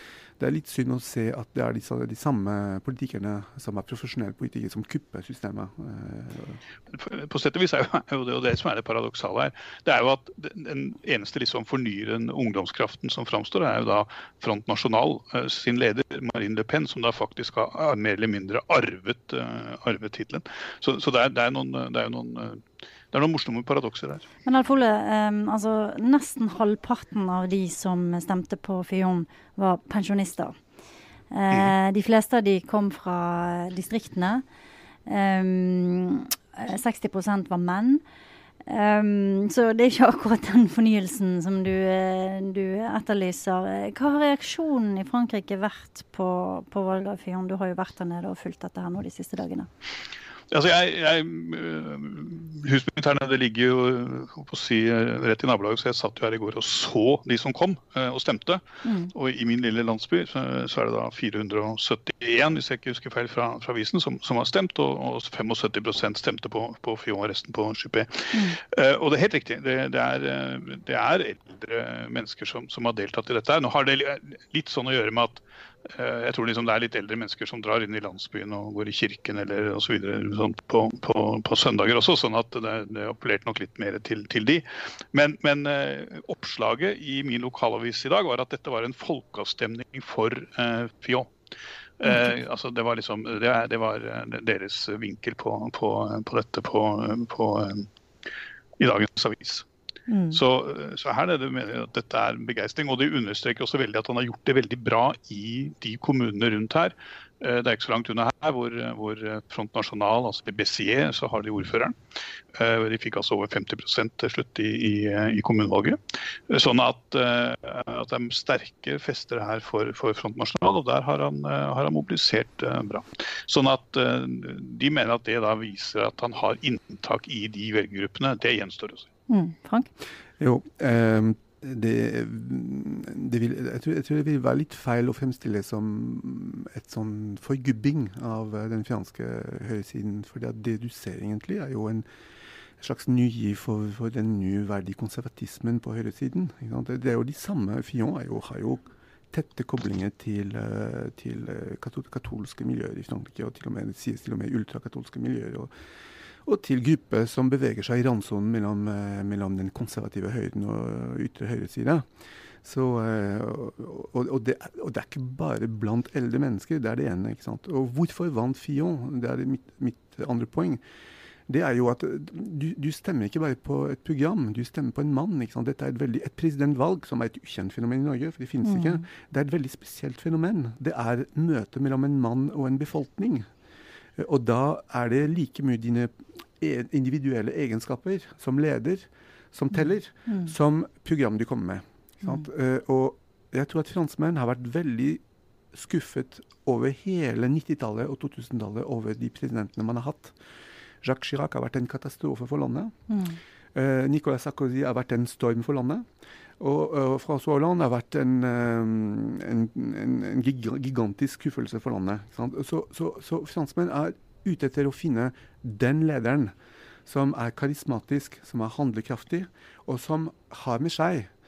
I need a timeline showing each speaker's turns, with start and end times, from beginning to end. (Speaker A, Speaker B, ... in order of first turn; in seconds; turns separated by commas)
Speaker A: 0.4-6.6, Speaker B: 6.9-24.3, Speaker C: 24.4-30.6, Speaker C: 31.3-34.4, Speaker C: 35.1-38.0, Speaker C: 38.7-49.7, Speaker B: 50.5-58.6, Speaker C: 58.9-59.1, Speaker B: 59.1-91.3, Speaker C: 68.3-68.6, Speaker B: 92.0-97.9, Speaker B: 98.8-99.7, Speaker C: 100.1-100.4, Speaker B: 100.3-112.0, Speaker B: 112.5-129.1, Speaker C: 129.3-129.9, Speaker A: 130.4-142.1, Speaker A: 142.8-155.7, Speaker A: 156.4-162.1, Speaker A: 162.6-170.8, Speaker A: 171.5-183.5, Speaker C: 178.6-179.0, Speaker A: 184.2-195.2, Speaker A: 195.7-200.4, Speaker A: 201.0-202.9, Speaker C: 203.1-203.4, Speaker A: 203.7-206.1, Speaker A: 206.6-216.5, Speaker A: 217.1-221.3